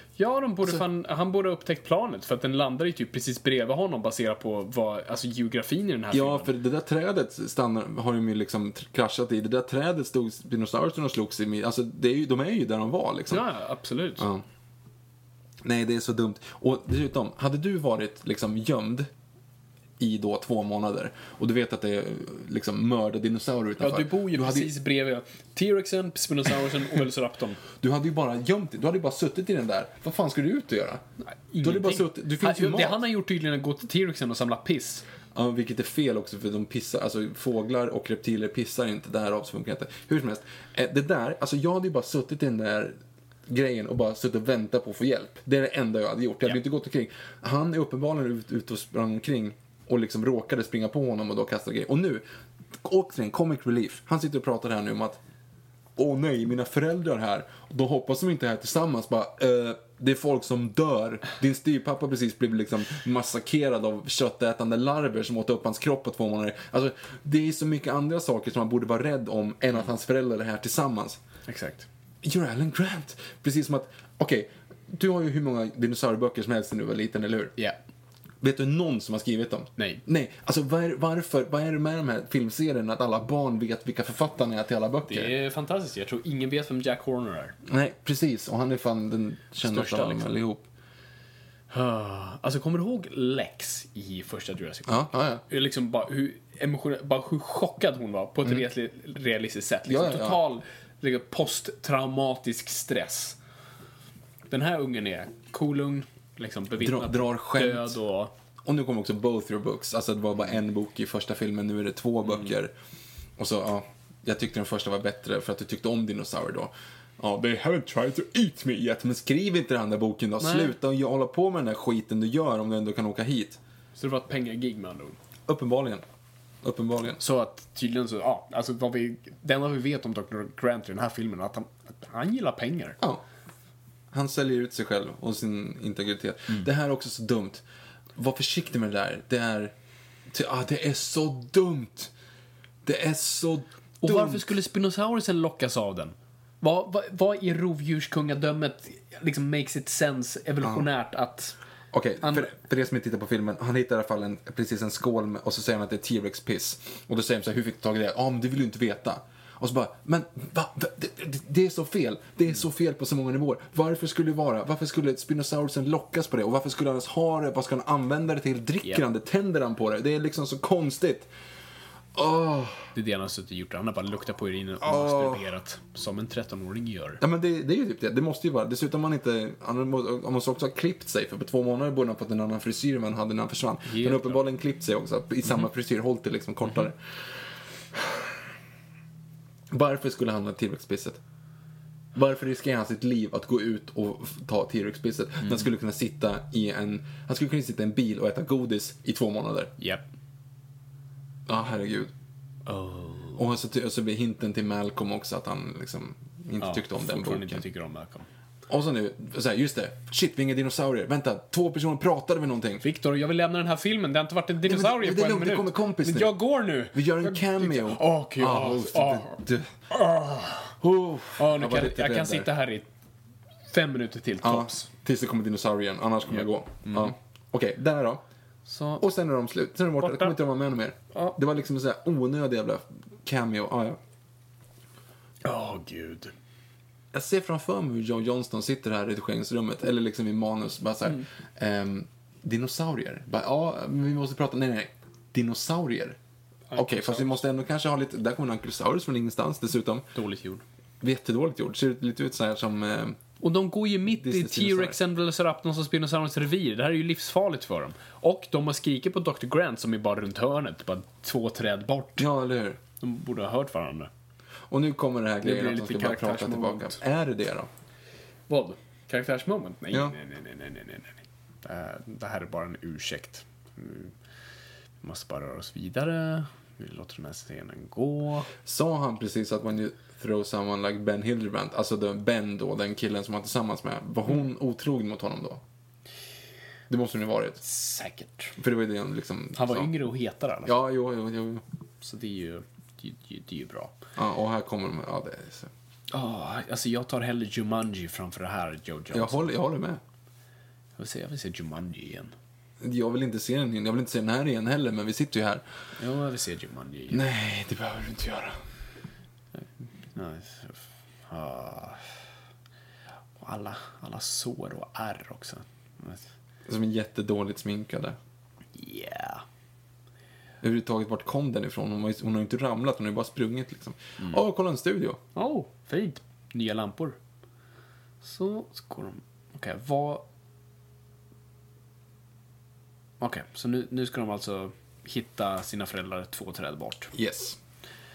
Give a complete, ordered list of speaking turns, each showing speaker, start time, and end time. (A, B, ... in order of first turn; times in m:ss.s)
0:00.2-0:06.5 A
0:06.1-0:13.5 B
0:13.3-0:14.3 A
0:14.2-0:14.4 B
0:15.6-0:19.1 B
0:20.0-0:24.7 B
0:23.8-0:27.6 A
0:27.8-0:31.0 B
0:31.2-0:35.0 A
0:31.6-0:33.0 B
0:35.3-0:52.2 B
0:52.8-0:55.2 B
0:56.0-1:11.2 B
1:11.5-1:11.9 A
1:12.2-1:17.6 B
1:18.4-1:25.4 B
1:19.8-1:20.0 A
1:25.1-1:27.6 A
1:27.7-1:30.7 B
1:29.6-1:30.4 A
1:31.7-1:43.4 A
1:34.9-1:35.4 B
1:39.9-1:40.4 B
1:44.5-1:48.3 A
1:46.8-1:48.0 B
1:48.6-1:52.7 B
1:53.4-2:03.6 B
2:00.4-2:00.7 A
2:04.0-2:05.2 A
2:05.5-2:06.0 B
2:06.6-2:07.2 B
2:07.2-2:13.0 A
2:14.1-2:17.6 B
2:18.2-2:19.7 B
2:20.3-2:22.1 B
2:22.8-2:24.4 B
2:24.0-2:31.6 A
2:30.6-2:30.9 B
2:31.9-2:51.3 B
2:32.2-2:32.5 A
2:52.1-2:52.9 B
2:52.9-2:57.2 A
2:54.8-2:55.4 B
2:57.2-3:07.2 B
3:03.9-3:04.4 A
3:07.9-3:08.4 B
3:09.7-3:11.2 B
3:12.2-3:19.7 B
3:19.8-3:20.0 A
3:21.5-3:22.1 B
3:22.7-3:23.4 A
3:23.4-3:27.6 B
3:26.6-3:28.3 A
3:28.7-3:32.8 B
3:32.8-3:40.8 A
3:34.6-3:36.4 B
3:36.9-3:39.8 B
3:40.8-3:42.5 B
3:41.4-3:42.9 A
3:43.7-3:44.9 A
3:44.4-3:48.2 B
3:46.3-3:47.1 A
3:48.7-3:49.0 A
3:49.0-3:54.0 B
3:50.0-3:50.4 A
3:55.4-3:56.3 A
3:57.1-4:06.2 B
4:06.7-4:07.4 A
4:06.8-4:10.0 B
4:10.2-4:10.6 A
4:11.0-4:13.2 B
4:13.4-4:22.3 A
4:14.1-4:15.0 B
4:22.2-4:22.8 B
4:23.0-4:24.1 A
4:24.7-4:27.7 B
4:25.4-4:27.0 A
4:28.5-4:34.1 A
4:35.0-4:38.5 A
4:38.6-4:45.6 B
4:46.9-4:47.6 B
4:47.6-4:48.6 A
4:48.6-4:49.9 B
4:49.6-4:50.8 A
4:50.6-4:51.6 B
4:52.0-4:54.0 A
4:54.2-4:55.7 B
4:56.1-4:59.5 A
4:59.1-5:00.0 B
5:01.0-5:02.3 A
5:02.8-5:05.6 B
5:06.0-5:07.2 A
5:07.1-5:08.6 B
5:10.1-5:12.1 A
5:13.4-5:16.3 A
5:16.7-5:18.2 B
5:18.8-5:19.4 A
5:20.6-5:25.2 B
5:25.4-5:27.2 A
5:28.2-5:30.2 A
5:33.2-5:37.1 A
5:37.1-5:37.6 B